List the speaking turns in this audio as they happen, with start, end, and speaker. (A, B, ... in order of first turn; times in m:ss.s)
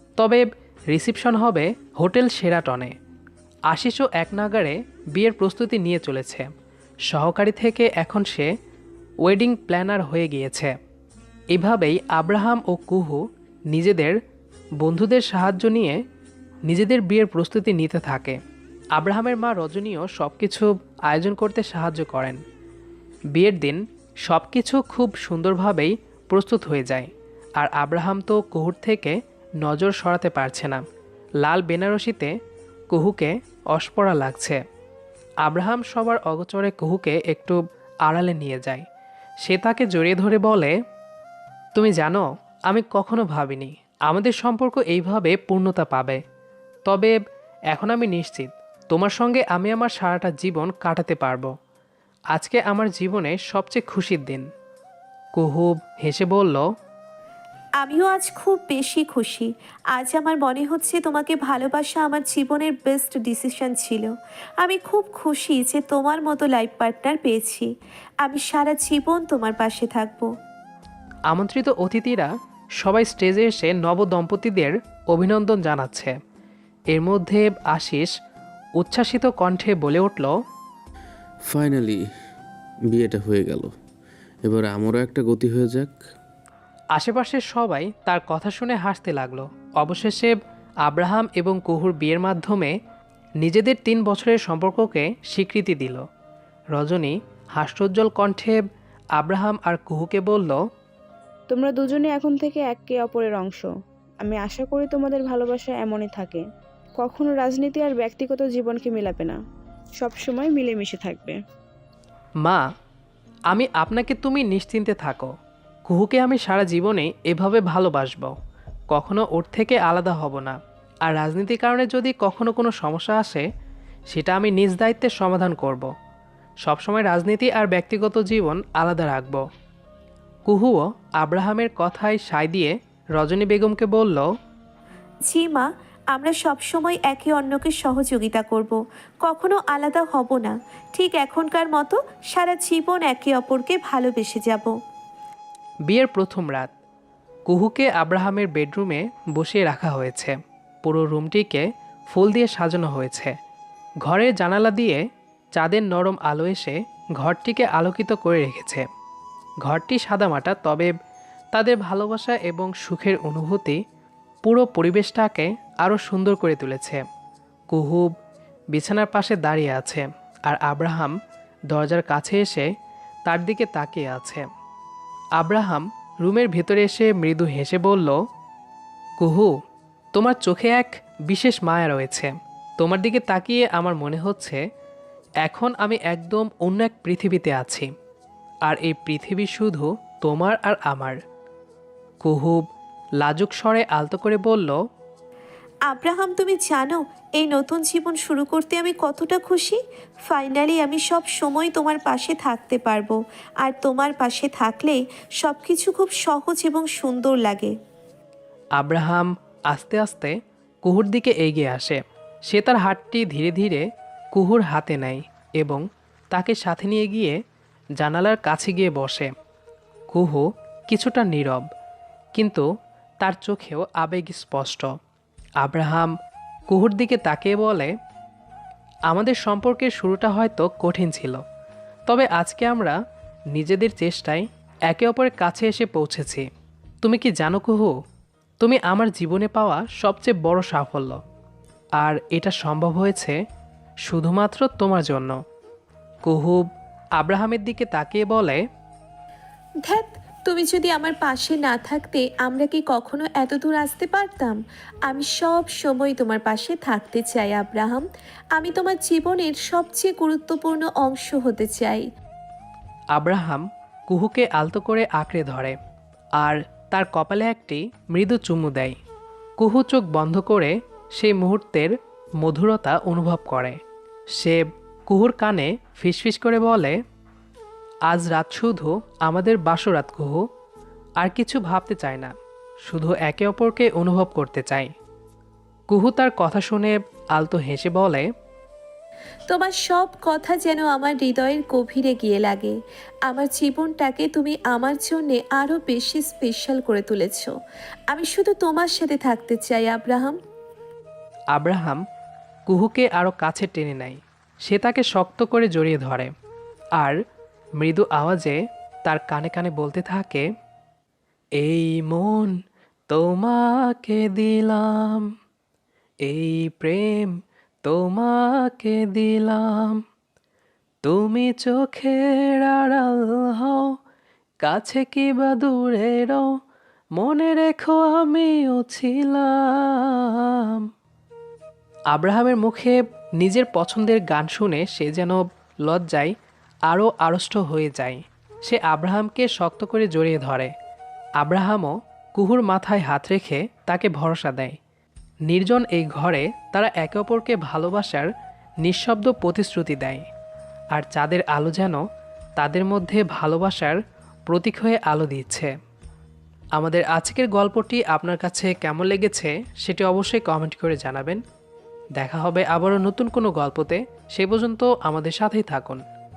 0:00.2-0:02.9 A
0:03.7-0:06.5 A
0:07.1-0:08.5 A
0:09.2-0:10.7 A
0:11.5-0:13.2 A
0:13.7-0:14.2 A
0:14.8-0:16.0 A
0:16.7-0:18.4 A
0:19.0-0:22.4 A
0:23.3-0:30.8 A
0:31.4-0:32.3 A
0:32.9-0:34.6 A
0:35.4-0:38.8 A
0:39.4-0:40.7 A
0:41.8-0:46.2 A
0:46.9-0:47.2 A
0:47.7-0:51.5 A
0:52.3-0:54.4 A
0:55.4-0:56.6 A
0:57.8-1:07.7 B
1:08.2-1:10.3 B
1:11.3-1:12.3 A
1:12.8-1:16.2 A
1:16.9-1:18.1 A
1:18.8-1:20.3 A
1:21.5-1:22.0 C
1:22.9-1:23.7 C
1:24.4-1:26.0 C
1:27.0-1:32.7 A
1:33.4-1:36.0 A
1:36.7-1:38.6 A
1:39.2-1:40.6 A
1:41.5-1:43.7 D
1:44.2-1:46.4 D
1:47.0-1:49.4 D
1:50.0-1:51.4 D
1:53.5-1:55.3 A
1:55.8-1:58.3 A
1:58.9-2:03.4 A
2:04.1-2:05.9 A
2:06.6-2:09.4 A
2:10.5-2:14.2 A
2:15.3-2:24.8 B
2:25.9-2:26.7 A
2:27.5-2:33.3 A
2:34.0-2:35.0 A
2:35.6-2:38.9 A
2:39.6-2:40.9 A
2:41.5-2:43.8 A
2:44.4-2:47.0 A
2:47.7-2:48.1 A
2:48.7-2:51.1 A
2:51.7-2:52.7 A
2:53.2-2:54.5 A
2:55.4-2:58.2 A
2:59.2-2:59.5 A
3:00.1-3:04.6 A
3:05.4-3:07.9 A
3:08.6-3:11.2 A
3:12.2-3:12.6 A
3:13.2-3:14.8 A
3:15.9-3:27.7 B
3:28.8-3:30.3 A
3:30.8-3:37.4 A
3:38.0-3:39.3 A
3:40.1-3:41.6 A
3:42.4-3:42.6 A
3:43.2-3:44.9 A
3:45.6-3:46.1 A
3:46.7-3:47.9 A
3:49.1-3:51.4 A
3:52.1-3:53.0 A
3:53.5-3:56.5 A
3:57.0-3:57.9 A
3:58.6-4:01.2 A
4:02.0-4:03.4 A
4:04.1-4:05.4 A
4:06.2-4:06.6 A
4:07.2-4:08.6 A
4:09.9-4:22.0 B
4:23.1-4:25.8 A
4:26.4-4:29.0 A
4:29.6-4:33.8 A
4:34.4-4:37.0 A
4:38.1-4:40.4 A
4:41.2-4:42.3 A
4:42.8-4:44.9 A
4:45.9-4:48.2 A
4:49.5-4:52.8 B
4:53.3-4:57.5 B
4:58.1-5:00.4 B
5:01.5-5:02.0 A
5:02.7-5:06.3 A
5:07.8-5:10.4 A
5:11.6-5:12.5 A
5:13.1-5:15.3 A
5:16.2-5:20.0 A
5:21.0-5:23.9 A
5:24.6-5:26.5 A
5:27.2-5:30.8 A
5:32.1-5:36.3 A
5:36.9-5:40.7 A
5:41.4-5:44.8 A
5:45.5-5:48.3 A
5:48.8-5:50.2 A
5:50.9-5:52.0 A
5:52.6-5:55.7 A
5:56.8-6:01.4 A
6:02.2-6:06.0 A